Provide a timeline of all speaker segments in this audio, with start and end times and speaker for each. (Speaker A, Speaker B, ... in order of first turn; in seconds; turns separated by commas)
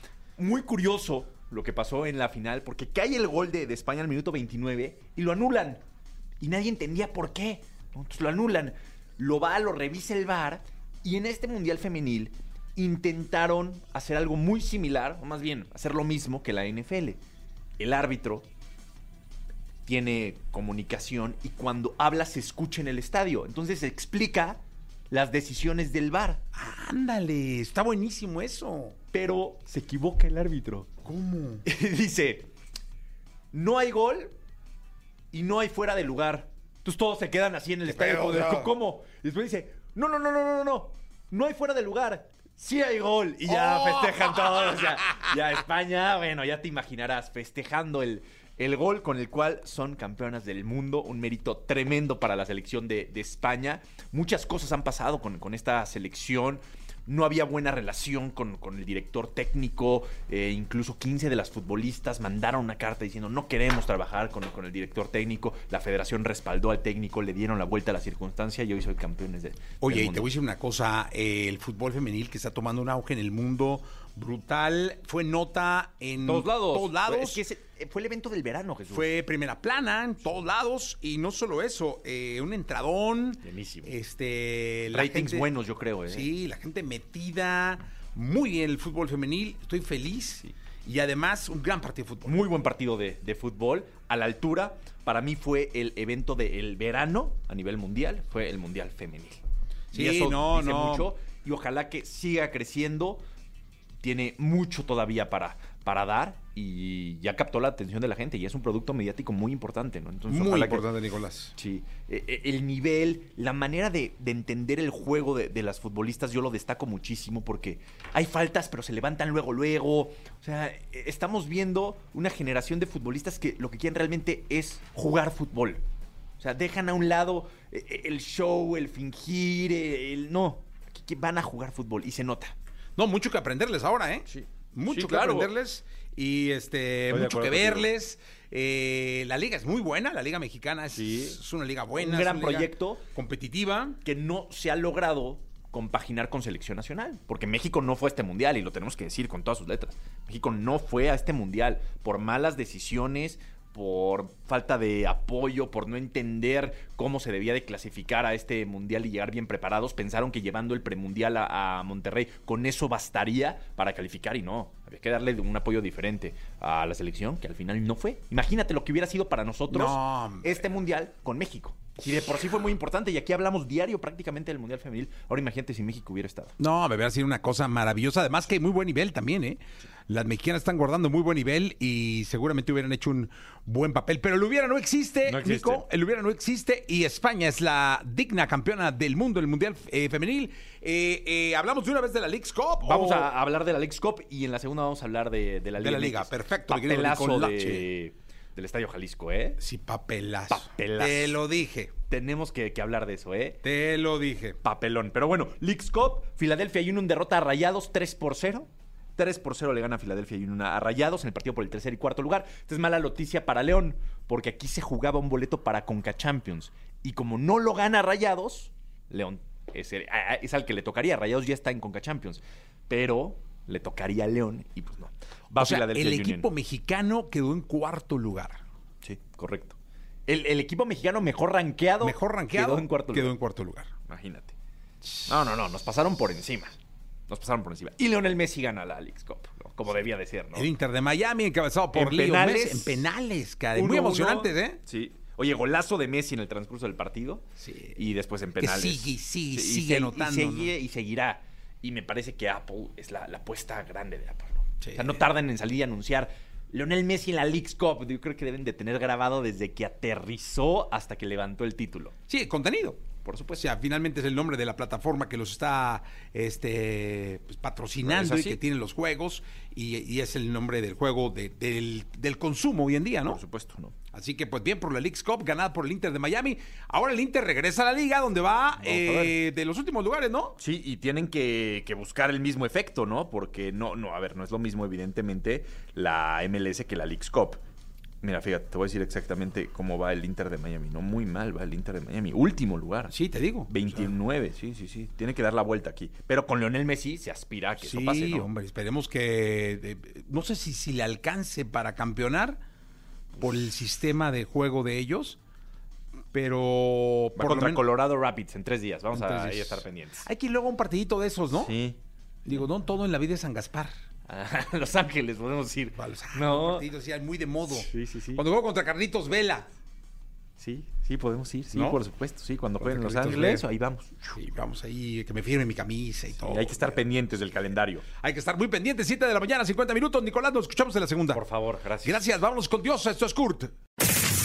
Speaker A: 0.4-5.8, Speaker A: 6.4-17.2, Speaker A: 17.8-18.5, Speaker A: 19.8-26.4, Speaker B: 26.5-28.9, Speaker A: 29.1-30.9, Speaker B: 31.1-31.6, Speaker A: 31.6-32.5, Speaker A: 33.5-34.3, Speaker A: 35.3-70.3, Speaker B: 37.9-38.7, Speaker B: 69.8-77.4, Speaker A: 76.2-79.1, Speaker B: 78.9-85.5, Speaker A: 83.4-83.9, Speaker A: 84.9-86.3, Speaker B: 86.1-92.4, Speaker A: 92.2-103.2, Speaker B: 99.9-101.1, Speaker A: 104.0-110.9, Speaker B: 110.3-111.5, Speaker A: 111.6-125.8, Speaker A: 126.4-132.5, Speaker B: 132.9-144.0, Speaker A: 134.3-135.5, Speaker A: 137.1-137.9, Speaker A: 140.9-141.4, Speaker A: 142.0-143.1, Speaker A: 144.0-176.5, Speaker B: 169.7-170.5, Speaker B: 176.6-193.3, Speaker A: 185.2-185.8, Speaker A: 192.8-199.6, Speaker B: 195.8-197.9, Speaker B: 199.6-201.9, Speaker A: 200.5-201.4, Speaker A: 202.1-203.6, Speaker B: 203.6-204.6, Speaker A: 204.6-226.5, Speaker B: 225.6-228.6, Speaker A: 229.0-233.3, Speaker B: 232.0-233.9, Speaker A: 234.1-234.5, Speaker A: 235.3-240.7, Speaker B: 240.5-244.8, Speaker A: 241.9-243.1, Speaker A: 243.7-262.1, Speaker B: 247.6-248.0, Speaker B: 248.6-250.7, Speaker B: 254.8-255.2, Speaker B: 262.3-263.0, Speaker A: 263.2-263.6, Speaker B: 263.6-273.4, Speaker A: 268.0-268.6, Speaker A: 273.2-273.9, Speaker B: 274.1-280.6, Speaker A: 278.8-279.4, Speaker A: 280.6-287.6, Speaker A: 288.2-293.1, Speaker B: 293.1-294.0, Speaker A: 293.7-298.5, Speaker B: 297.8-302.6, Speaker B: 303.4-305.4, Speaker B: 306.3-307.8, Speaker A: 307.4-310.3, Speaker B: 309.2-311.7, Speaker A: 311.5-312.0, Speaker B: 312.4-313.9, Speaker A: 314.3-316.9, Speaker B: 316.0-319.7, Speaker A: 317.7-318.4, Speaker A: 320.6-324.1, Speaker B: 322.8-323.6, Speaker B: 324.2-327.0, Speaker A: 326.4-328.0, Speaker B: 328.2-331.4, Speaker A: 331.3-332.2, Speaker B: 332.0-333.7